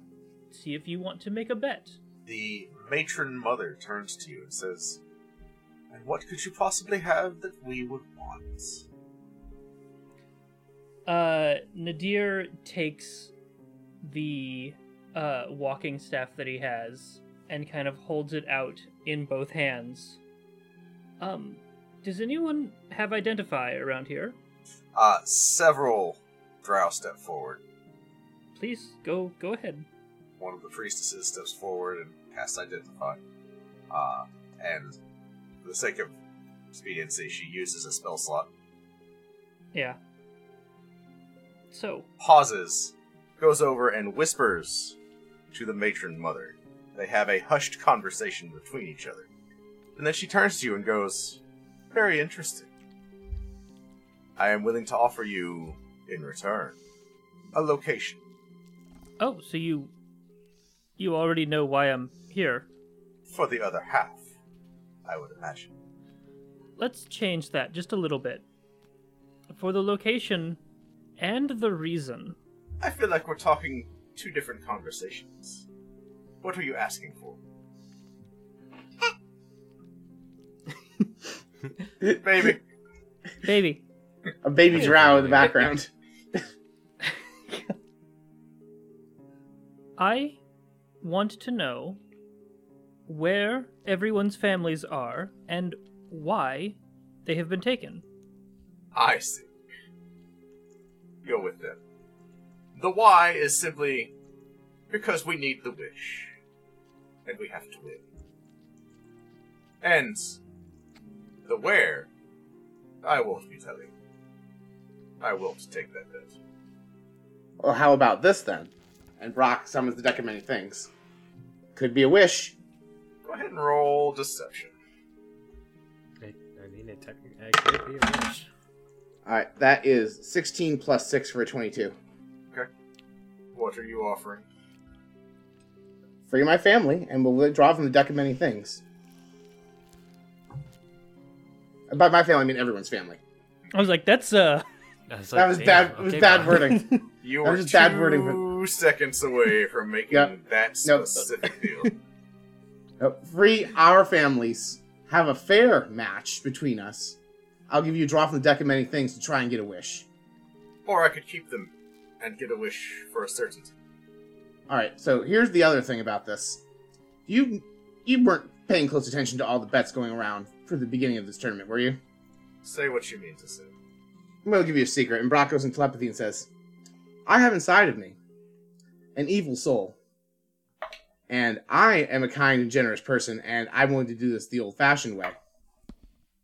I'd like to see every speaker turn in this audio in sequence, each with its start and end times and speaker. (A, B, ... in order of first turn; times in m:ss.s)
0:00.5-0:02.0 A
0:02.2-0:05.0 B
0:05.9-0:08.8 B
0:11.0-0:13.3 A
0:14.0-0:20.2 A
0:21.2-0:24.4 A
0:24.9-0:27.6 B
0:28.5-0:29.8 A
0:30.4-0:33.2 B
0:33.9-0:34.9 B
0:35.6-0:36.1 B
0:36.7-0:38.5 B
0:39.7-0:40.0 A
0:41.7-0:42.1 A
0:42.2-0:45.0 B
0:45.5-0:49.3 B
0:50.0-0:51.4 B
0:51.9-0:52.7 B
0:54.4-0:56.8 B
0:57.5-0:58.2 B
0:59.2-0:59.9 A
1:01.0-1:02.6 A
1:03.3-1:04.3 B
1:05.0-1:05.7 B
1:06.8-1:08.4 A
1:09.5-1:10.6 A
1:11.2-1:12.4 A
1:12.8-1:15.6 B
1:16.4-1:17.4 B
1:22.2-1:22.6 B
1:23.4-1:23.8 A
1:24.4-1:25.9 C
1:24.7-1:25.6 D
1:24.7-1:25.5 A
1:30.0-1:30.4 A
1:31.0-1:32.0 A
1:33.1-1:38.0 A
1:38.9-1:39.5 B
1:41.2-1:41.8 B
1:42.8-1:44.1 B
1:44.9-1:46.3 B
1:47.2-1:48.0 B
1:49.8-1:50.4 B
1:51.4-1:52.1 B
1:53.0-1:53.9 B
1:55.2-1:56.4 B
1:57.6-2:00.9 C
2:01.8-2:02.5 C
2:03.2-2:04.7 B
2:06.2-2:08.5 D
2:09.2-2:11.9 C
2:13.5-2:14.4 B
2:16.3-2:18.8 C
2:21.9-2:23.2 C
2:23.7-2:24.6 A
2:25.1-2:26.8 D
2:25.3-2:28.4 C
2:27.2-2:31.9 B
2:30.8-2:31.9 C
2:33.0-2:37.2 C
2:37.7-2:40.1 C
2:40.8-2:43.7 B
2:44.7-2:46.6 C
2:47.3-2:52.0 C
2:52.6-2:53.7 B
2:54.4-2:56.5 C
2:57.2-2:58.2 C
2:59.1-3:00.0 C
3:01.3-3:05.4 C